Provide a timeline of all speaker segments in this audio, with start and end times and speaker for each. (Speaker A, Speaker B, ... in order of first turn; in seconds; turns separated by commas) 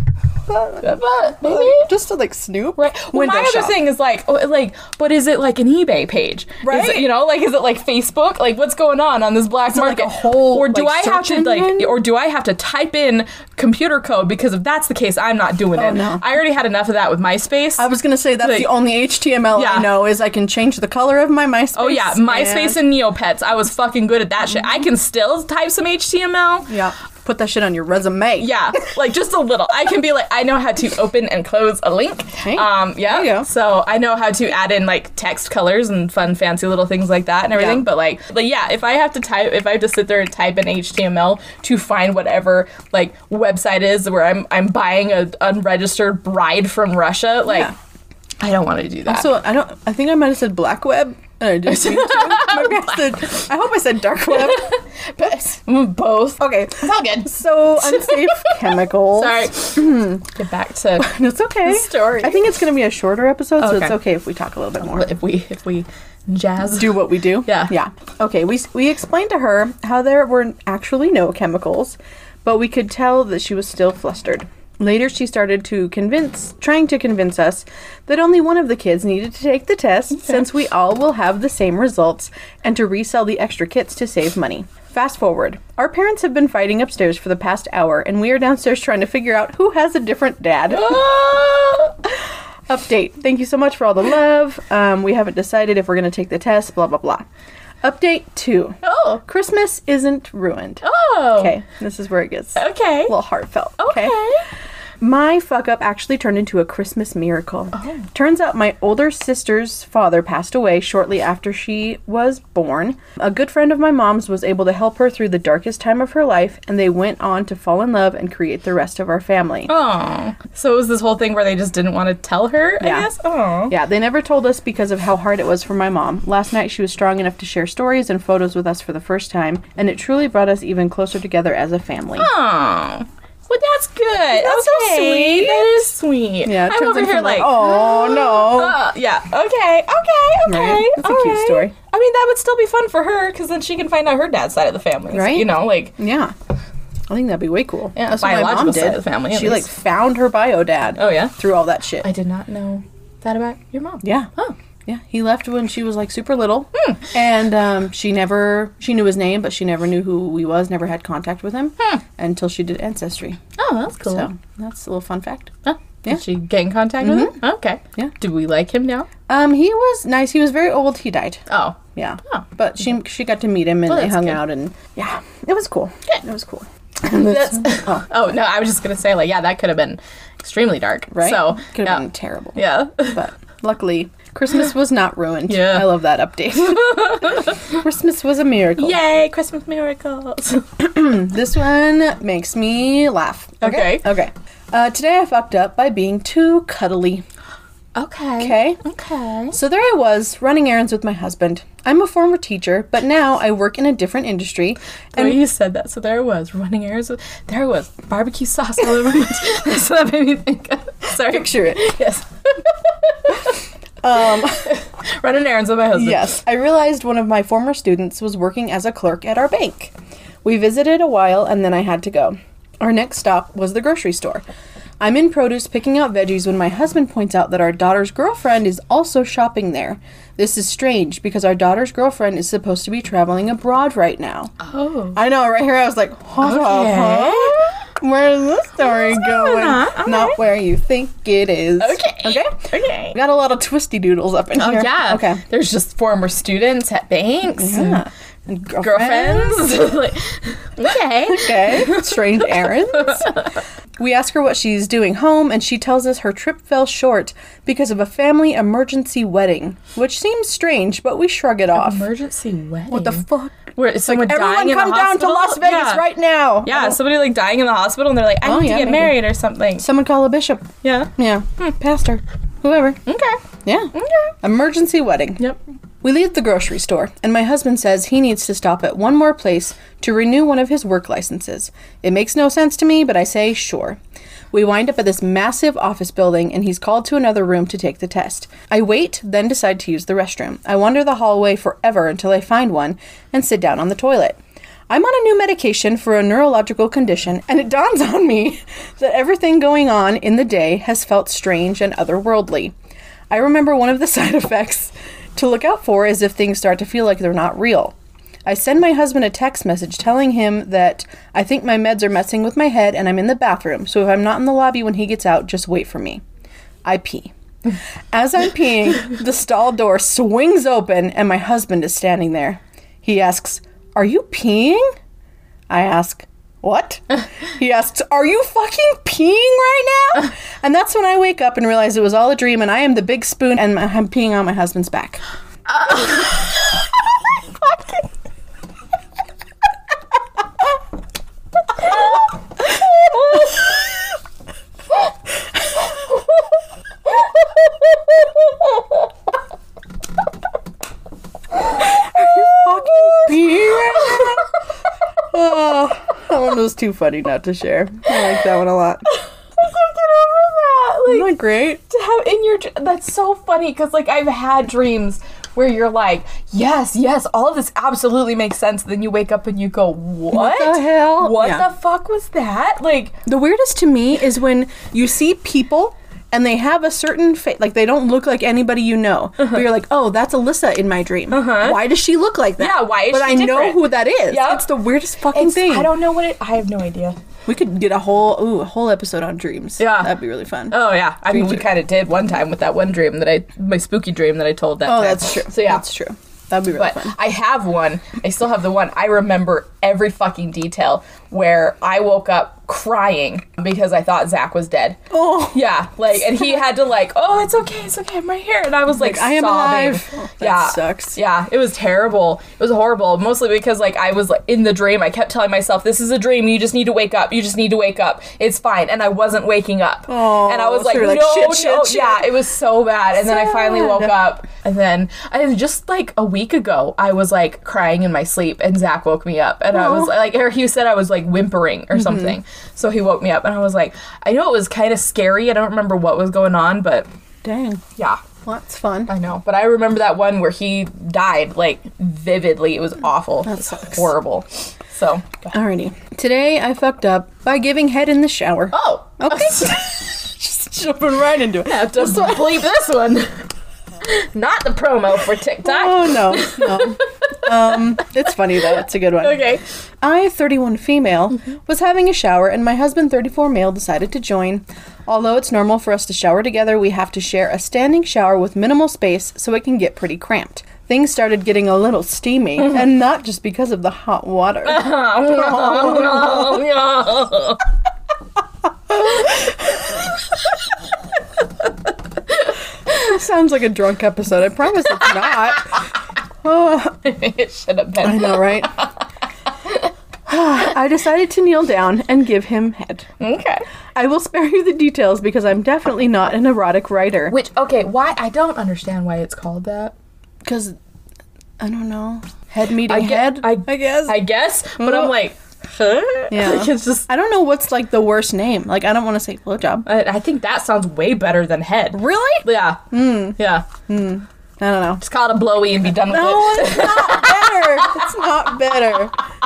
Speaker A: 0.5-0.8, Speaker B: 0.8-1.9, Speaker A: 1.4-3.8, Speaker B: 2.8-17.9, Speaker A: 6.6-7.1, Speaker A: 9.7-11.9, Speaker A: 15.8-16.2, Speaker A: 17.8-22.8, Speaker B: 18.4-18.8, Speaker B: 19.6-20.0, Speaker B: 21.8-26.7, Speaker A: 24.5-24.8, Speaker A: 26.7-28.5, Speaker B: 28.4-47.7, Speaker A: 32.4-33.5, Speaker A: 37.5-37.8, Speaker A: 47.5-47.7, Speaker B: 48.4-49.3, Speaker A: 49.1-54.7, Speaker B: 51.7-53.3, Speaker B: 54.3-58.6, Speaker A: 55.2-55.5, Speaker A: 56.4-60.3, Speaker B: 59.1-61.1, Speaker A: 61.0-65.1, Speaker B: 61.6-62.4, Speaker B: 63.6-64.0, Speaker B: 64.8-67.7, Speaker A: 66.8-91.0, Speaker B: 90.7-92.0, Speaker A: 92.7-97.2, Speaker A: 97.8-104.2, Speaker B: 98.8-99.2, Speaker B: 100.8-101.5, Speaker B: 102.6-103.2, Speaker B: 103.8-104.5, Speaker A: 105.0-119.7, Speaker B: 107.8-108.0, Speaker B: 119.7-123.8, Speaker A: 122.8-123.1, Speaker A: 123.7-132.3, Speaker B: 132.2-145.9, Speaker A: 134.3-135.9, Speaker A: 136.4-138.8, Speaker A: 140.5-141.7, Speaker A: 145.1-146.3, Speaker A: 147.1-152.1, Speaker B: 147.9-149.7, Speaker B: 151.0-151.3, Speaker B: 152.0-154.6, Speaker A: 154.0-154.3, Speaker A: 154.9-163.4, Speaker B: 156.8-157.1, Speaker B: 163.6-164.3, Speaker A: 164.1-166.2, Speaker B: 165.7-169.1, Speaker A: 167.0-167.4, Speaker A: 169.3-178.1, Speaker B: 171.5-172.5, Speaker B: 173.9-174.4, Speaker B: 177.1-182.1, Speaker A: 181.1-189.0, Speaker B: 182.6-183.2, Speaker B: 185.5-185.9, Speaker B: 186.6-187.6, Speaker B: 188.8-190.7, Speaker A: 190.8-197.2, Speaker B: 193.6-194.1, Speaker B: 197.9-199.6, Speaker A: 198.4-198.8, Speaker A: 199.5-205.4, Speaker B: 205.2-213.6, Speaker A: 211.2-212.0, Speaker A: 214.0-214.7, Speaker B: 214.4-216.3, Speaker A: 215.9-224.4, Speaker A: 225.0-234.5, Speaker B: 234.6-235.2, Speaker A: 235.2-245.4, Speaker B: 236.4-237.7, Speaker B: 238.8-240.4, Speaker B: 241.8-243.2, Speaker B: 244.6-248.0, Speaker A: 247.6-249.7, Speaker B: 248.8-252.2, Speaker A: 251.2-253.4, Speaker B: 252.9-253.4, Speaker A: 254.0-262.1, Speaker B: 261.7-266.1, Speaker A: 262.9-267.0, Speaker B: 266.6-269.9, Speaker A: 268.4-269.2, Speaker A: 269.8-273.0, Speaker B: 270.8-271.7, Speaker B: 273.1-273.4, Speaker A: 273.6-275.4, Speaker B: 273.9-274.3, Speaker A: 276.0-284.0, Speaker A: 284.5-294.4, Speaker A: 294.9-302.7, Speaker A: 303.3-307.9, Speaker A: 308.5-316.2, Speaker A: 316.8-317.3, Speaker A: 318.1-324.9, Speaker A: 325.7-335.2, Speaker B: 335.7-336.5, Speaker B: 343.1-343.5, Speaker A: 351.8-354.5, Speaker B: 352.9-354.4, Speaker A: 355.3-359.0, Speaker B: 359.1-361.3, Speaker A: 361.1-361.8, Speaker B: 361.9-373.2, Speaker A: 370.3-371.6, Speaker A: 373.3-385.9, Speaker B: 381.3-381.8, Speaker B: 382.6-384.7, Speaker B: 385.3-387.2, Speaker A: 387.5-390.8, Speaker B: 389.8-390.1, Speaker B: 390.7-395.8, Speaker A: 394.9-397.1, Speaker B: 396.8-405.0, Speaker A: 405.1-405.6, Speaker B: 405.5-437.1, Speaker A: 406.2-406.6, Speaker A: 408.9-411.2, Speaker A: 420.1-422.3, Speaker A: 423.2-424.1, Speaker A: 429.7-430.1, Speaker A: 431.9-432.4, Speaker A: 437.4-437.8, Speaker B: 438.0-438.2, Speaker A: 438.4-439.1, Speaker B: 439.1-445.5, Speaker A: 443.5-444.0, Speaker A: 445.5-452.7, Speaker B: 448.7-449.9, Speaker B: 451.6-453.4, Speaker B: 454.0-457.8, Speaker A: 455.6-459.4, Speaker B: 459.2-459.6, Speaker A: 460.0-476.6, Speaker B: 474.7-477.6, Speaker A: 479.0-479.5, Speaker B: 479.1-479.4, Speaker A: 482.9-485.8, Speaker A: 486.4-487.0, Speaker B: 487.0-488.9, Speaker A: 488.0-488.7, Speaker A: 490.3-493.1, Speaker B: 493.2-493.6, Speaker A: 493.9-497.3, Speaker B: 497.3-499.9, Speaker A: 500.4-500.8, Speaker A: 501.6-504.2, Speaker B: 502.9-507.1, Speaker A: 504.8-505.1, Speaker A: 506.3-509.9, Speaker B: 509.9-513.7, Speaker A: 511.9-515.0, Speaker B: 515.0-518.0, Speaker A: 516.1-519.2